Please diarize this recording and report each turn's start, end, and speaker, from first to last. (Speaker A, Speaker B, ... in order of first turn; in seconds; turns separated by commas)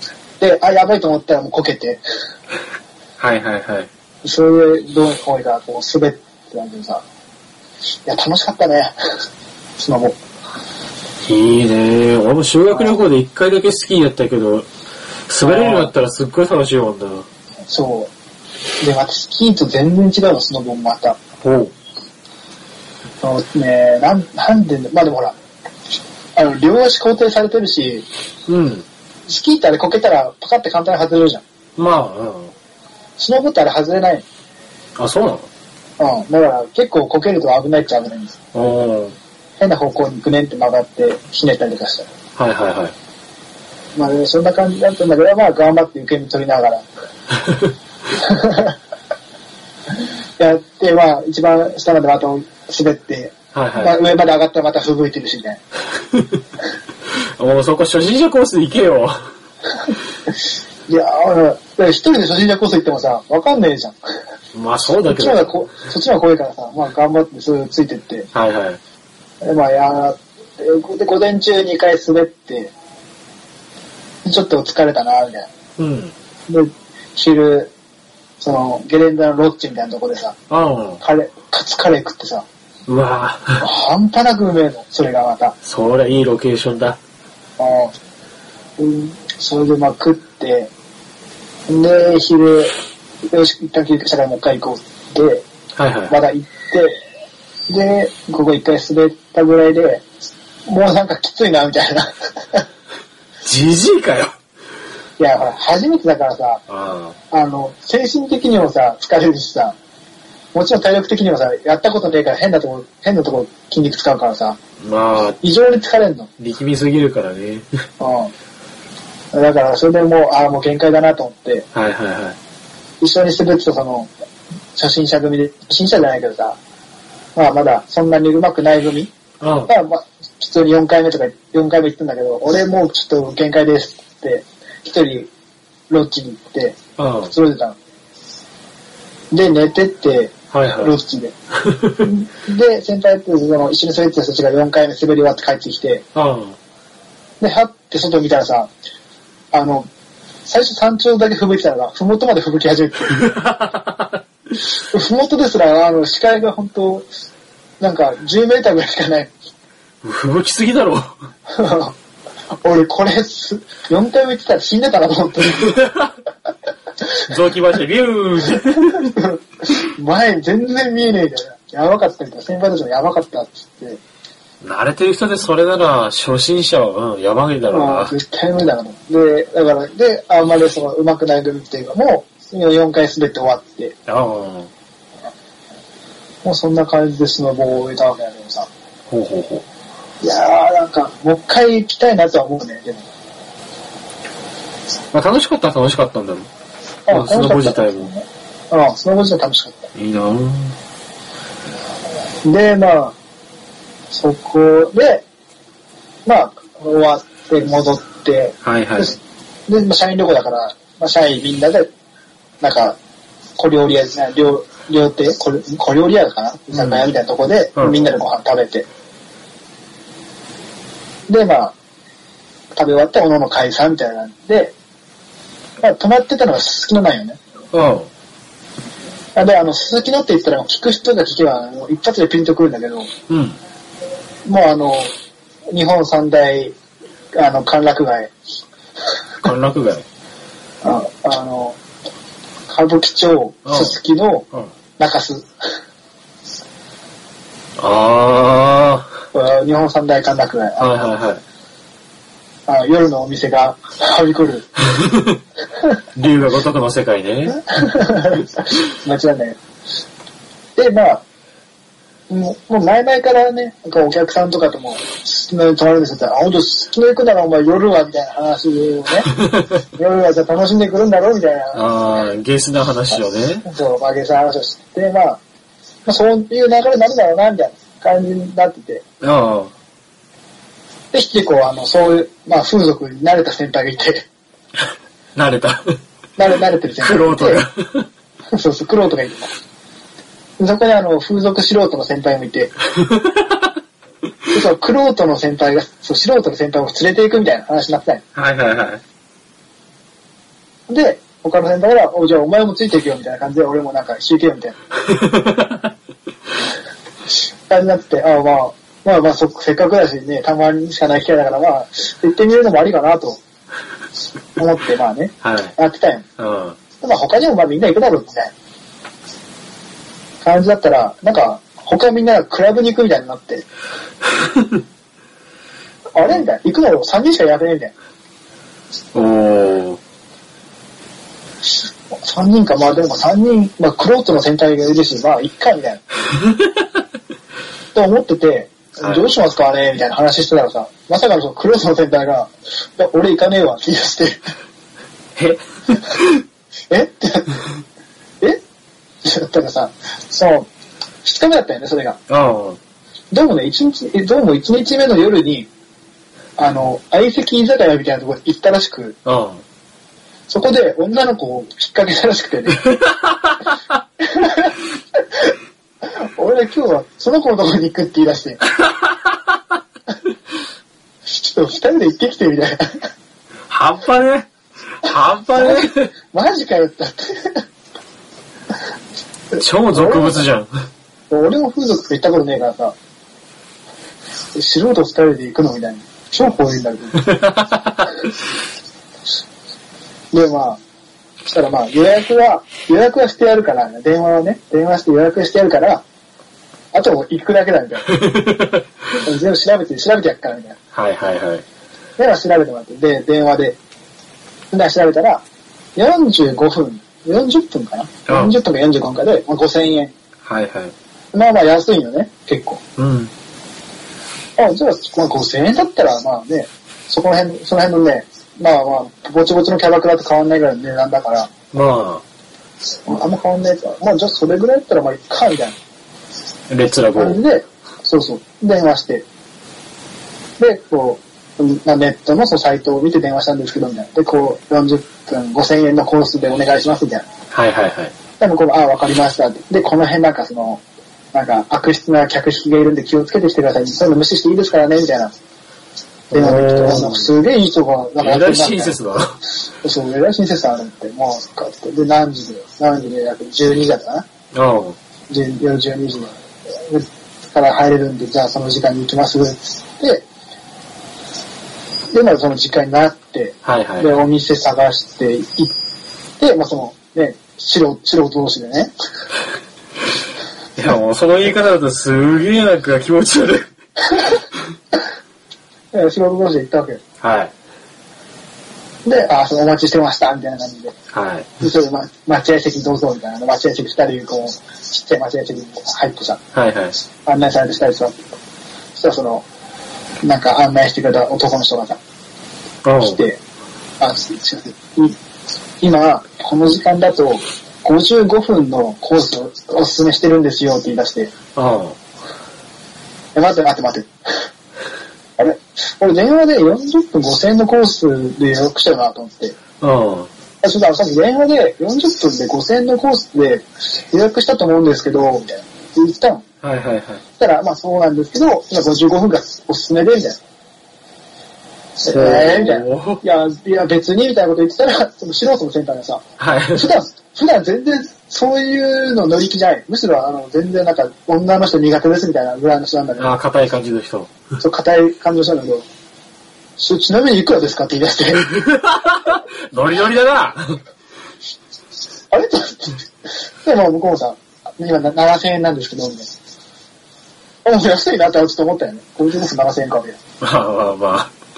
Speaker A: 0.4-2.0, Speaker B: 3.2-3.9, Speaker A: 4.2-7.0, Speaker A: 8.1-8.9, Speaker A: 9.8-10.2, Speaker B: 11.2-14.7, Speaker B: 15.3-17.3, Speaker A: 15.4-15.9, Speaker A: 17.7-18.1, Speaker A: 18.8-21.2, Speaker B: 21.4-21.7, Speaker A: 23.2-25.4, Speaker A: 26.4-28.1, Speaker B: 28.5-28.9, Speaker A: 29.3-31.4, Speaker B: 31.8-32.5, Speaker A: 33.2-34.2, Speaker B: 35.0-35.5, Speaker A: 36.0-38.4, Speaker B: 38.5-39.1, Speaker A: 39.6-42.1, Speaker B: 42.4-42.9, Speaker A: 44.0-46.9, Speaker B: 47.4-47.7, Speaker A: 48.1-48.8, Speaker A: 50.4-55.6, Speaker B: 53.5-54.0, Speaker B: 56.1-56.4, Speaker B: 57.1-59.3, Speaker A: 60.9-64.0, Speaker B: 64.5-65.5, Speaker A: 65.0-68.3, Speaker B: 68.3-68.8, Speaker A: 69.4-72.7, Speaker A: 74.2-75.5, Speaker B: 75.8-76.1, Speaker A: 76.5-77.7, Speaker A: 78.4-80.4, Speaker B: 80.5-81.0, Speaker A: 81.0-82.5, Speaker B: 82.9-83.6, Speaker A: 83.6-85.6, Speaker B: 85.6-87.0, Speaker A: 87.6-87.9, Speaker A: 88.8-90.7, Speaker A: 91.7-92.7, Speaker A: 93.3-95.5, Speaker B: 95.8-96.2, Speaker A: 96.1-97.0, Speaker A: 97.7-100.0, Speaker A: 100.7-102.7, Speaker B: 103.4-104.4, Speaker A: 105.2-106.6, Speaker B: 106.7-107.2, Speaker A: 107.3-109.8, Speaker A: 110.5-114.6, Speaker B: 114.8-115.4, Speaker A: 115.4-116.3, Speaker B: 116.4-117.7, Speaker A: 118.0-118.3, Speaker A: 119.3-121.7, Speaker B: 121.7-122.4, Speaker A: 123.0-124.1, Speaker A: 124.8-126.6, Speaker A: 127.3-129.1, Speaker B: 129.4-129.7, Speaker A: 129.7-135.3, Speaker A: 135.9-137.8, Speaker B: 137.0-137.3, Speaker A: 139.3-141.3, Speaker B: 140.5-140.9, Speaker B: 141.6-142.1, Speaker A: 142.0-146.1, Speaker B: 146.2-146.6, Speaker A: 147.4-148.7, Speaker A: 149.5-149.9, Speaker A: 150.5-153.3, Speaker B: 153.2-154.2, Speaker A: 154.9-157.1, Speaker A: 157.8-159.3, Speaker B: 160.0-161.1, Speaker A: 161.5-161.9, Speaker A: 162.6-165.8, Speaker B: 165.8-166.1, Speaker B: 167.3-169.1, Speaker A: 168.9-174.0, Speaker B: 174.6-178.1, Speaker A: 177.7-184.0, Speaker B: 184.1-184.7, Speaker A: 186.4-188.7, Speaker B: 189.1-189.7, Speaker A: 190.2-193.1, Speaker B: 195.1-196.5, Speaker A: 197.1-199.9, Speaker B: 197.1-198.1, Speaker B: 199.9-200.8, Speaker A: 202.4-203.2, Speaker A: 204.1-205.2, Speaker A: 206.3-211.9, Speaker B: 208.6-209.2, Speaker A: 212.6-213.0, Speaker A: 213.6-218.9, Speaker B: 216.7-217.1, Speaker B: 217.8-218.1, Speaker A: 221.3-221.8, Speaker A: 222.8-224.8, Speaker A: 225.8-227.4, Speaker B: 227.7-228.1, Speaker A: 229.4-233.1, Speaker B: 233.3-233.6, Speaker A: 234.5-235.1, Speaker A: 235.7-236.8, Speaker A: 237.3-238.3, Speaker B: 239.4-240.1, Speaker A: 240.8-241.8, Speaker A: 242.7-244.5, Speaker B: 243.7-244.0, Speaker A: 245.0-245.5, Speaker B: 247.8-249.1, Speaker A: 249.3-251.1, Speaker B: 250.8-251.4, Speaker A: 252.7-254.7, Speaker B: 254.9-255.4, Speaker B: 256.1-257.6, Speaker A: 257.6-259.6, Speaker A: 260.8-261.2, Speaker A: 262.3-269.3, Speaker B: 269.3-269.8, Speaker A: 269.9-271.8, Speaker B: 271.7-273.7, Speaker A: 273.6-275.4, Speaker A: 276.1-279.0, Speaker B: 279.2-279.7, Speaker A: 281.1-284.3, Speaker B: 285.4-285.9, Speaker A: 286.4-287.6, Speaker B: 287.0-288.1, Speaker A: 288.5-289.5, Speaker A: 290.6-292.7, Speaker B: 293.0-293.7, Speaker A: 294.5-298.2, Speaker B: 298.4-299.0, Speaker A: 300.9-304.8, Speaker B: 305.1-305.9, Speaker A: 307.7-313.4, Speaker A: 314.6-316.3, Speaker B: 315.4-315.7, Speaker B: 316.4-316.8, Speaker A: 317.0-318.5, Speaker A: 320.4-323.7, Speaker A: 326.1-327.9, Speaker B: 329.1-330.0, Speaker A: 332.1-336.0, Speaker A: 337.9-344.4, Speaker B: 339.0-339.3, Speaker B: 345.4-346.4, Speaker A: 346.9-347.6, Speaker A: 349.2-350.7, Speaker A: 351.2-352.2, Speaker B: 352.3-352.8, Speaker A: 353.3-355.7, Speaker A: 356.6-359.2, Speaker B: 359.2-359.6, Speaker A: 360.5-362.9, Speaker B: 363.0-363.6, Speaker A: 364.2-365.5, Speaker A: 366.0-368.6, Speaker B: 368.8-369.4, Speaker A: 371.3-373.1, Speaker B: 373.7-374.5, Speaker B: 375.0-376.1, Speaker A: 375.5-377.6, Speaker A: 379.6-380.4, Speaker B: 379.6-380.7, Speaker A: 381.3-382.9, Speaker A: 384.6-387.4, Speaker B: 387.2-388.1, Speaker A: 390.3-390.8, Speaker A: 391.4-396.0, Speaker A: 396.9-398.2, Speaker B: 398.1-398.8, Speaker A: 399.2-400.8, Speaker B: 400.9-401.6, Speaker A: 402.2-403.8, Speaker A: 404.7-405.4, Speaker A: 406.0-410.1, Speaker B: 408.3-408.5, Speaker B: 410.4-410.9, Speaker A: 411.3-412.8, Speaker B: 413.0-413.3, Speaker A: 414.6-421.5, Speaker B: 421.7-422.2, Speaker A: 423.1-425.8, Speaker B: 426.7-427.4, Speaker A: 427.1-429.2, Speaker A: 430.6-437.3, Speaker B: 437.5-438.1, Speaker A: 438.4-440.8, Speaker A: 441.3-445.3, Speaker B: 446.3-447.3, Speaker A: 446.3-449.0, Speaker B: 448.2-449.4, Speaker A: 449.8-454.3, Speaker B: 454.5-455.0, Speaker A: 455.3-460.3, Speaker A: 462.1-465.7, Speaker B: 463.6-464.1, Speaker A: 466.4-468.9, Speaker B: 470.8-473.7, Speaker A: 475.9-477.0, Speaker B: 477.2-477.5, Speaker A: 479.1-481.0, Speaker B: 481.1-481.5, Speaker A: 481.6-486.4, Speaker B: 486.5-487.0, Speaker A: 487.2-488.2, Speaker A: 488.9-489.4, Speaker A: 490.2-492.0, Speaker B: 492.8-493.2, Speaker A: 493.0-493.4, Speaker A: 494.0-495.2, Speaker A: 495.8-501.3, Speaker B: 501.6-502.0, Speaker A: 503.4-504.1, Speaker A: 505.4-509.6, Speaker B: 509.8-510.3, Speaker A: 510.6-516.4, Speaker B: 516.6-517.2, Speaker A: 517.4-520.4, Speaker A: 522.0-533.4, Speaker B: 522.1-523.2, Speaker B: 526.4-526.9, Speaker B: 533.2-534.3, Speaker A: 534.6-535.9, Speaker A: 536.8-538.6, Speaker B: 538.5-540.8, Speaker A: 542.3-543.0, Speaker A: 543.6-546.3, Speaker A: 547.6-550.2, Speaker B: 550.4-551.3